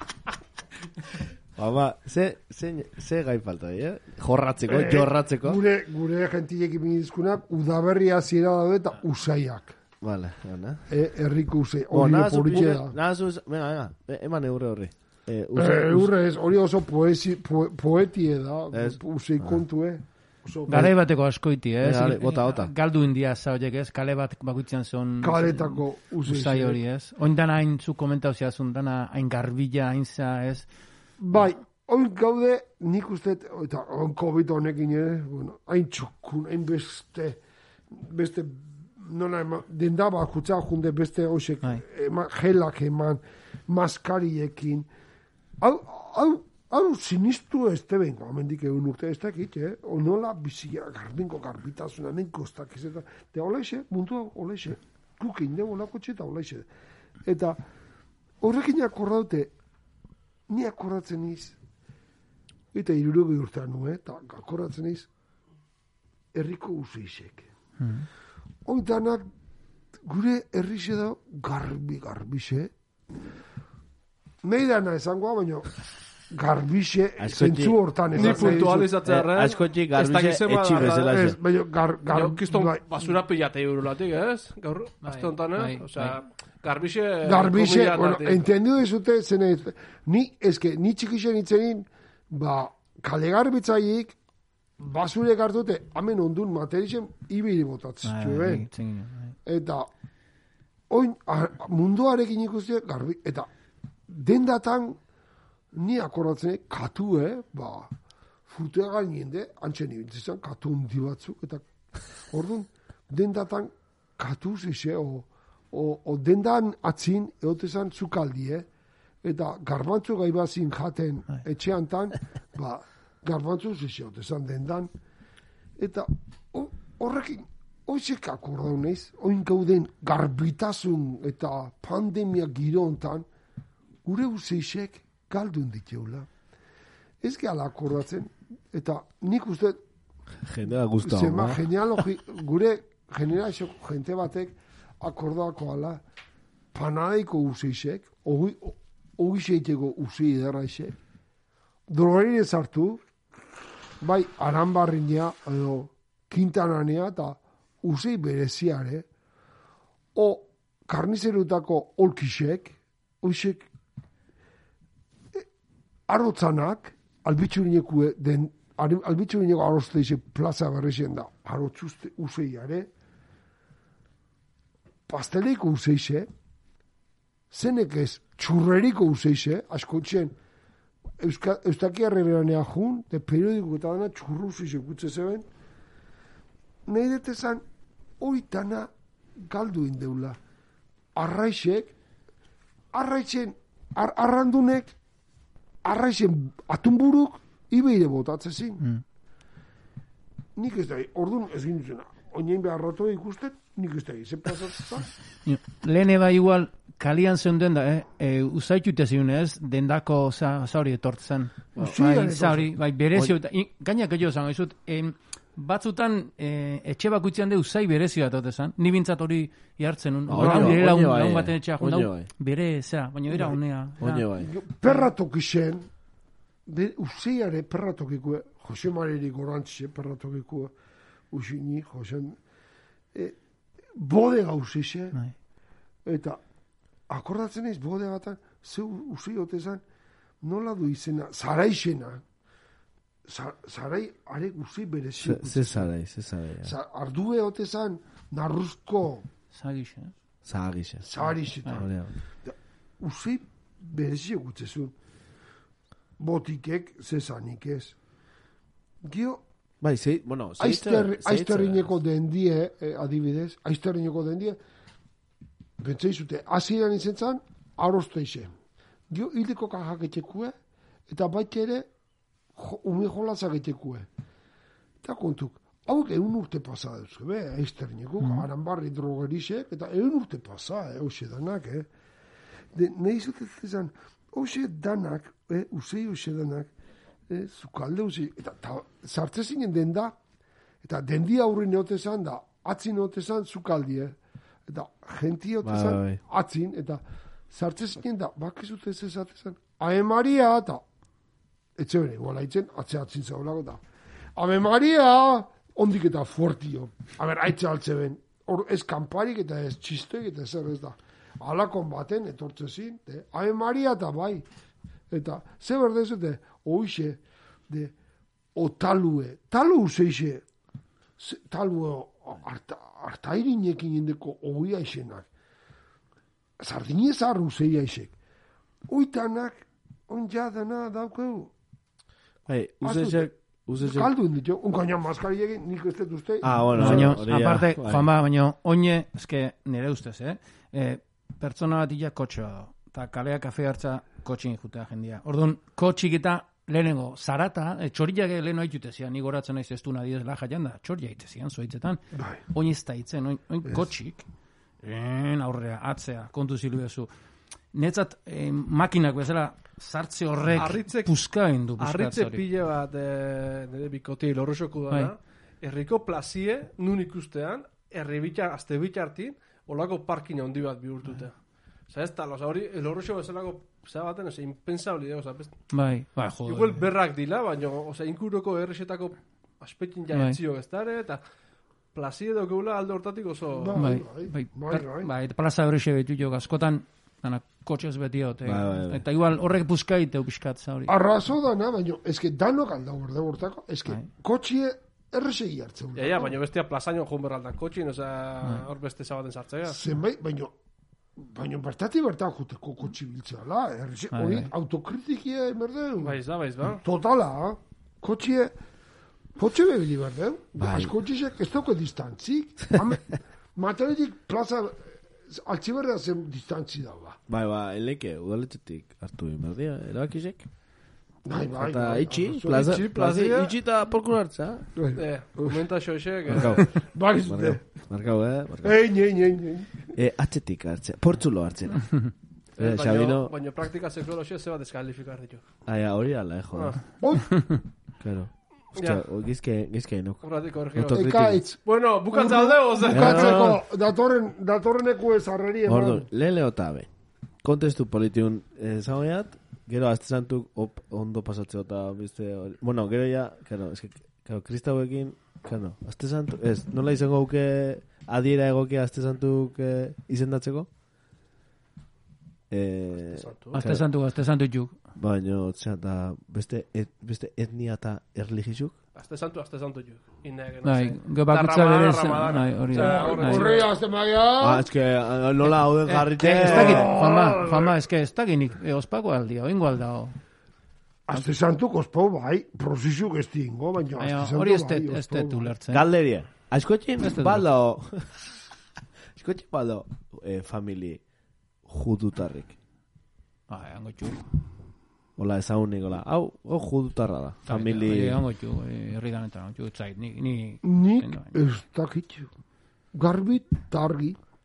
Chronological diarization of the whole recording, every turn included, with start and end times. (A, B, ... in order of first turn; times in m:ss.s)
0:01.6-0:05.6 A
0:04.7-0:09.8 B
0:10.0-0:10.8 A
0:10.9-0:12.9 B
0:11.9-0:16.1 A
0:15.5-0:20.9 B
0:18.7-0:19.6 A
0:20.7-0:30.7 C
0:21.8-0:22.7 A
0:25.2-0:26.8 B
0:31.2-0:37.4 B
0:37.9-0:44.9 B
0:45.6-0:56.7 B
0:57.2-0:57.6 B
0:58.4-0:59.5 B
1:00.5-1:01.6 B
1:02.7-1:05.1 B
1:06.3-1:07.5 B
1:07.8-1:08.1 C
1:08.6-1:09.3 B
1:10.0-1:12.7 B
1:14.4-1:15.7 B
1:16.3-1:18.9 B
1:17.2-1:21.4 A
1:18.1-1:21.3 D
1:20.8-1:22.8 B
1:22.1-1:28.4 D
1:25.0-1:26.1 C
1:27.2-1:34.2 B
1:34.8-1:38.7 B
1:38.0-1:39.4 C
1:39.4-1:39.9 B
1:40.9-1:43.5 B
1:44.1-1:45.0 B
1:45.7-1:47.9 B
1:48.5-1:51.7 B
1:52.3-1:58.7 B
1:59.2-2:04.9 B
2:05.8-2:13.2 B
2:14.0-2:16.3 B
2:17.2-2:19.8 B
2:20.4-2:21.6 A
2:21.0-2:26.0 B
2:26.7-2:30.9 B
2:31.9-2:33.0 B
2:34.0-2:39.0 B
2:40.1-2:43.7 B
2:46.1-2:52.9 B
2:55.1-2:56.3 B
2:57.5-3:00.3 B
3:01.2-3:05.4 B
3:06.9-3:07.6 B
3:08.2-3:08.9 B
3:09.4-3:10.4 B
3:11.2-3:11.9 B
3:12.9-3:14.9 B
3:15.8-3:18.8 B
3:20.6-3:25.1 B
3:25.4-3:44.3 C
3:31.8-3:32.7 B
3:40.3-3:42.3 A
3:40.3-3:40.8 B
3:44.0-3:44.5 A
3:44.4-3:45.9 B
3:44.8-3:45.1 C
3:46.7-3:50.7 B
3:51.3-3:52.4 B
3:54.0-3:55.2 B
3:56.0-3:56.4 B
3:57.1-3:59.8 B
4:00.4-4:02.2 B
4:03.2-4:05.9 B
4:05.2-4:06.7 A
4:06.6-4:09.3 B
4:09.5-4:10.1 C
4:10.4-4:11.1 A
4:11.0-4:11.9 B
4:11.6-4:12.1 A
4:12.4-4:14.9 B
4:16.2-4:18.0 B
4:19.0-4:19.4 B
4:19.8-4:22.0 A
4:20.6-4:24.6 B
4:25.8-4:28.5 B
4:29.1-4:30.5 B
4:31.1-4:31.9 B
4:32.6-4:34.1 B
4:35.0-4:41.9 B
4:38.2-4:38.5 C
4:42.7-4:46.7 B
4:47.3-4:50.1 B
4:50.8-4:54.2 B
4:54.7-5:00.8 B
4:55.6-4:56.2 A
5:01.8-5:03.8 B
5:04.4-5:14.4 B
5:15.1-5:17.9 B
5:18.6-5:20.4 B
5:21.2-5:25.3 B
5:26.6-5:28.1 B
5:28.9-5:31.5 B
5:32.5-5:34.1 A
5:32.8-5:37.2 B
5:36.4-5:38.1 A
5:36.7-5:54.2 C
5:52.1-5:52.4 B
5:54.8-5:57.1 C
5:57.7-6:02.4 C
6:00.5-6:01.1 D
6:01.8-6:11.3 D
6:11.9-6:15.5 D
6:15.7-6:16.8 C
6:16.4-6:21.2 D
6:20.1-6:20.4 C
6:21.9-6:23.9 D
6:23.5-6:25.1 B
6:23.8-6:30.9 C
6:28.4-6:29.0 A
6:30.9-6:36.3 B
6:35.9-6:39.8 D
6:39.7-6:40.5 B
6:41.2-6:46.2 B
6:44.1-6:44.5 C
6:46.0-6:46.8 D
6:46.8-6:48.5 B
6:49.4-6:57.2 B
6:50.6-6:50.9 A
6:57.3-7:00.5 A
7:01.2-7:02.9 B
7:01.5-7:04.7 A
7:02.5-7:03.5 D
7:04.8-7:05.6 B
7:05.0-7:06.8 D
7:06.3-7:08.8 A
7:06.4-7:07.6 B
7:08.6-7:09.9 B
7:09.9-7:12.0 A
7:12.6-7:15.4 D
7:12.6-7:13.3 A
7:15.6-7:16.8 A
7:16.5-7:16.8 D
7:17.0-7:17.5 B
7:17.3-7:17.6 C
7:18.0-7:20.2 A
7:18.8-7:19.0 D
7:20.2-7:23.6 D
7:20.7-7:21.4 A
7:20.8-7:21.6 B
7:22.1-7:26.1 B
7:22.9-7:23.6 A
7:25.6-7:26.9 A
7:27.4-7:40.7 A
7:42.5-7:43.8 A
7:43.0-7:43.6 D
7:43.5-7:44.8 C
7:45.0-7:48.8 A
7:48.9-7:53.7 D
7:50.6-7:53.5 C
7:52.7-7:54.6 B
7:54.4-7:56.9 A
7:55.4-8:00.2 C
7:56.4-7:57.8 B
8:01.1-8:05.5 B
8:04.0-8:05.8 C
8:05.7-8:08.3 A
8:07.0-8:07.4 C
8:09.1-8:11.0 A
8:11.6-8:12.6 A
8:13.5-8:14.2 C
8:15.2-8:18.2 A
8:17.4-8:21.3 C
8:20.6-8:22.3 B
8:22.9-8:24.2 B